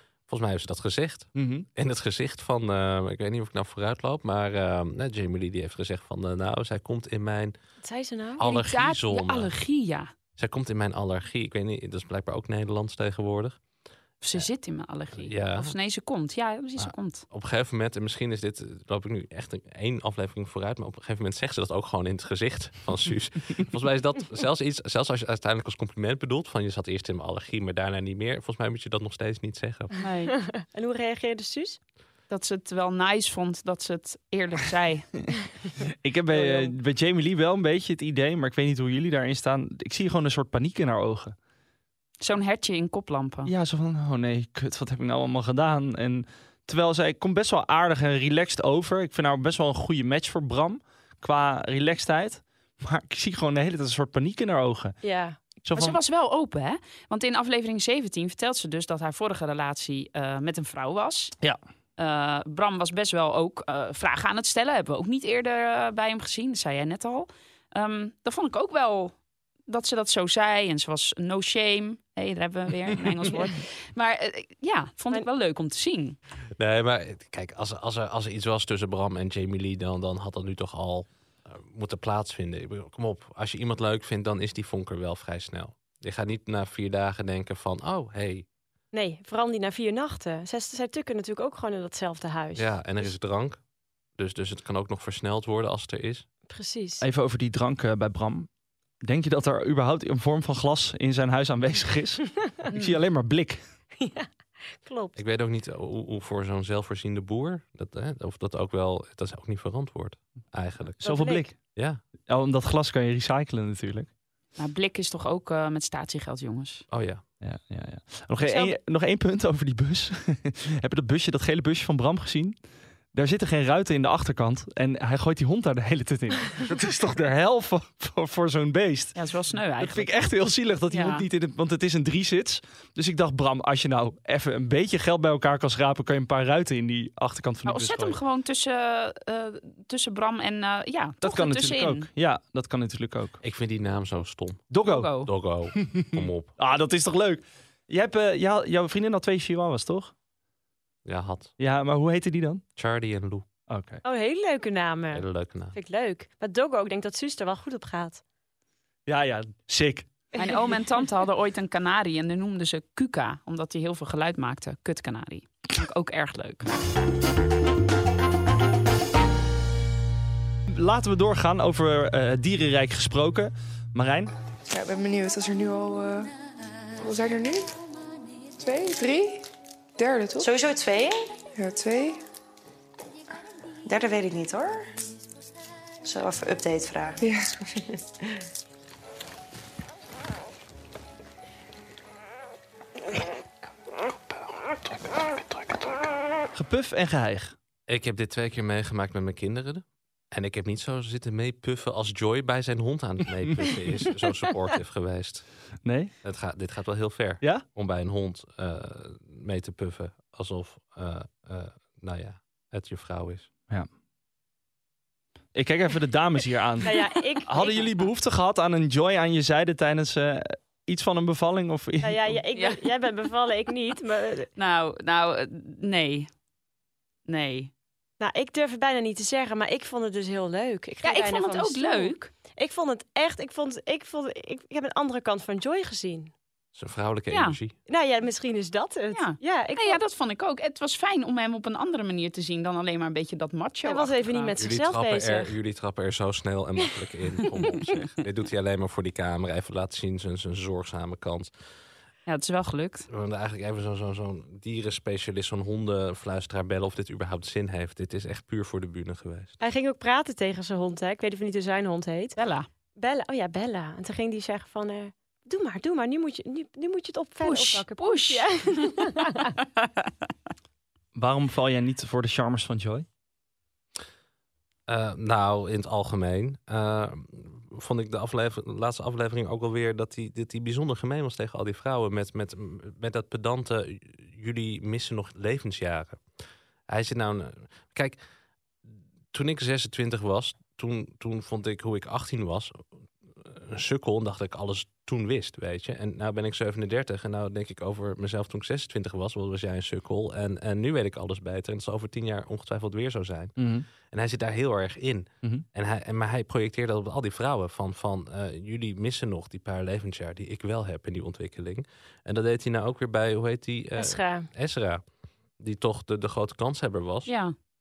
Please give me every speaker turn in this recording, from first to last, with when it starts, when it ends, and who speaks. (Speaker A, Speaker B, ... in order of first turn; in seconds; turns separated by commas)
Speaker A: 0.3-7.5, Speaker B: 1.3-1.7, Speaker C: 7.8-8.4, Speaker A: 8.4-9.5, Speaker D: 8.4-10.1, Speaker A: 10.3-13.6, Speaker D: 14.2-17.2, Speaker A: 15.1-15.7, Speaker A: 16.8-29.9, Speaker D: 30.0-30.3, Speaker C: 30.3-31.8, Speaker D: 32.3-35.1, Speaker B: 36.0-41.3, Speaker C: 36.3-36.7, Speaker D: 42.2-43.5, Speaker B: 43.5-55.0, Speaker C: 55.0-55.4, Speaker B: 55.6-56.0, Speaker D: 55.7-61.3, Speaker D: 62.0-69.2, Speaker D: 69.7-76.2, Speaker A: 76.6-88.5, Speaker C: 88.9-93.1, Speaker A: 92.5-93.6, Speaker A: 94.1-96.2, Speaker C: 96.5-97.0, Speaker B: 97.0-98.5, Speaker B: 99.0-103.6, Speaker C: 104.0-105.2, Speaker A: 105.1-111.0, Speaker B: 111.0-111.6, Speaker C: 111.0-111.5, Speaker A: 111.6-112.0, Speaker B: 112.2-114.1, Speaker D: 114.6-116.8, Speaker A: 116.9-117.2, Speaker B: 117.4-122.5, Speaker C: 118.4-118.8, Speaker B: 123.1-129.2, Speaker D: 129.1-130.1, Speaker B: 129.8-138.2, Speaker C: 130.9-131.2, Speaker D: 137.7-142.1, Speaker B: 141.2-143.4, Speaker A: 143.4-144.7, Speaker B: 144.7-145.2, Speaker D: 144.8-145.3, Speaker A: 145.2-146.5, Speaker B: 145.8-150.1, Speaker A: 151.0-151.5, Speaker B: 151.6-152.6, Speaker A: 152.8-153.5, Speaker B: 153.7-154.0, Speaker C: 154.0-158.2, Speaker A: 155.1-155.8, Speaker B: 159.1-160.1, Speaker C: 160.3-160.7, Speaker D: 160.4-166.7, Speaker B: 170.7-174.3, Speaker E: 174.7-176.3, Speaker E: 177.0-177.7, Speaker E: 178.6-180.5, Speaker F: 180.5-181.1, Speaker E: 181.5-182.2, Speaker F: 183.9-184.8, Speaker F: 186.1-187.1, Speaker E: 187.2-187.6, Speaker B: 196.5-197.5, Speaker A: 197.9-205.4, Speaker B: 205.8-206.1, Speaker A: 206.2-213.5, Speaker B: 207.4-207.7, Speaker B: 215.5-222.3, Speaker C: 216.8-217.8, Speaker C: 222.0-224.5, Speaker D: 222.5-222.8, Speaker D: 224.6-226.3, Speaker D: 227.3-227.7, Speaker C: 228.2-236.3, Speaker D: 231.0-232.3, Speaker A: 236.7-237.8, Speaker D: 237.3-237.6, Speaker C: 237.9-240.0, Speaker D: 239.1-244.5, Speaker C: 243.8-245.5, Speaker A: 244.6-251.5, Speaker D: 252.3-253.1, Speaker A: 253.1-259.5, Speaker C: 259.6-262.4, Speaker D: 262.4-262.7, Speaker C: 263.0-269.5, Speaker D: 267.4-268.9, Speaker B: 271.1-273.1, Speaker A: 274.9-286.2, Speaker A: 286.9-288.2, Speaker A: 289.3-292.8, Speaker A: 293.4-315.0, Speaker B: 303.6-303.9, Speaker C: 313.9-314.5, Speaker A: 315.6-317.3, Speaker D: 317.2-317.5